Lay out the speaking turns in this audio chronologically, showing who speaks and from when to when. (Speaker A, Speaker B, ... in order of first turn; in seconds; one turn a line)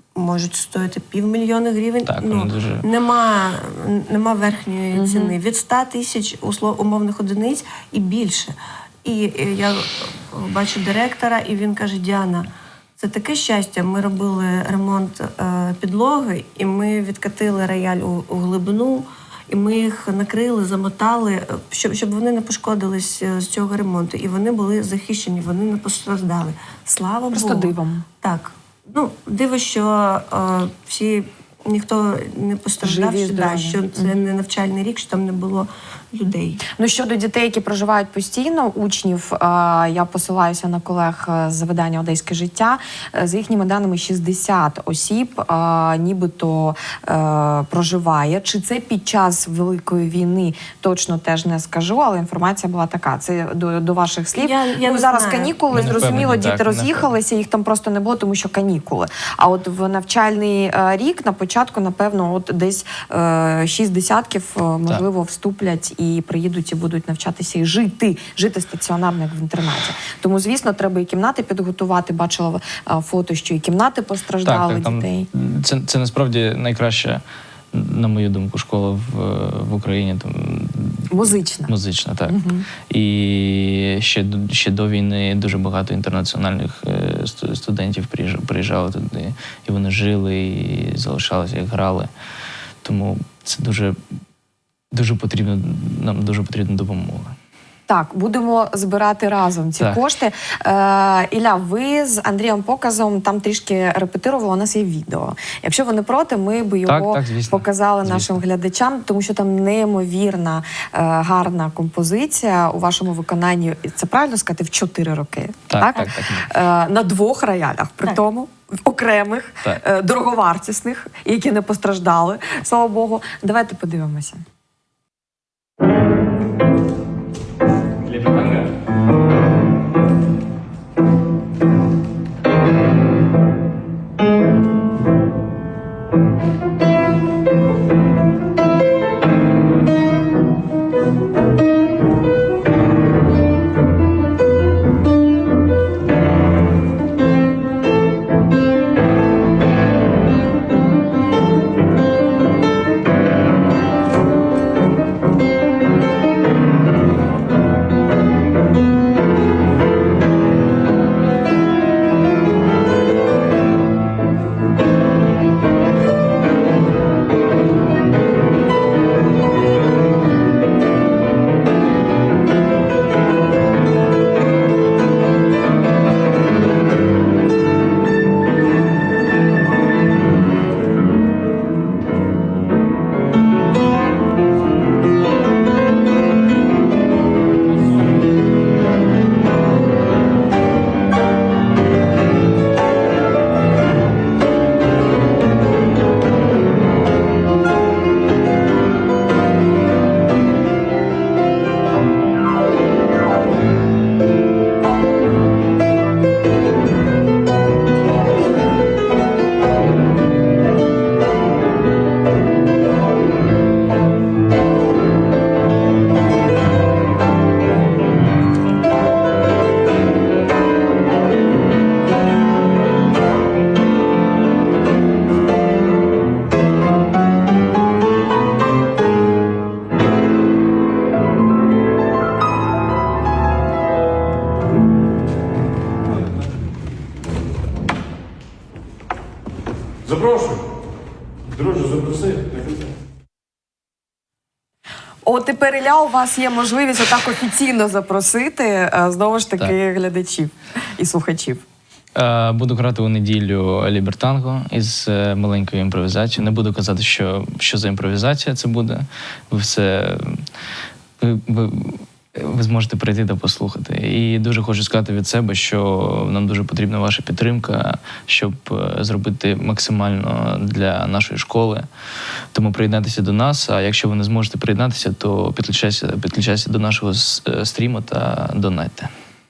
Speaker A: 0.1-36.6
Speaker B: 2.1-2.9
Speaker C: 4.9-5.3
Speaker C: 27.3-28.1
Speaker C: 32.8-34.1
Speaker C: 36.8-75.3
Speaker A: 54.4-55.6
Speaker B: 55.7-57.1
Speaker B: 74.5-92.1
Speaker C: 81.1-81.7
Speaker C: 82.3-82.7
Speaker B: 92.8-94.0
Speaker B: 94.9-97.3
Speaker C: 97.9-124.4
Speaker B: 106.9-108.4
Speaker B: 115.7-116.5
Speaker B: 128.1-128.7
Speaker C: 245.2-251.6
Speaker B: 252.2-260.4
Speaker B: 261.2-271.9
Speaker B: 272.5-279.1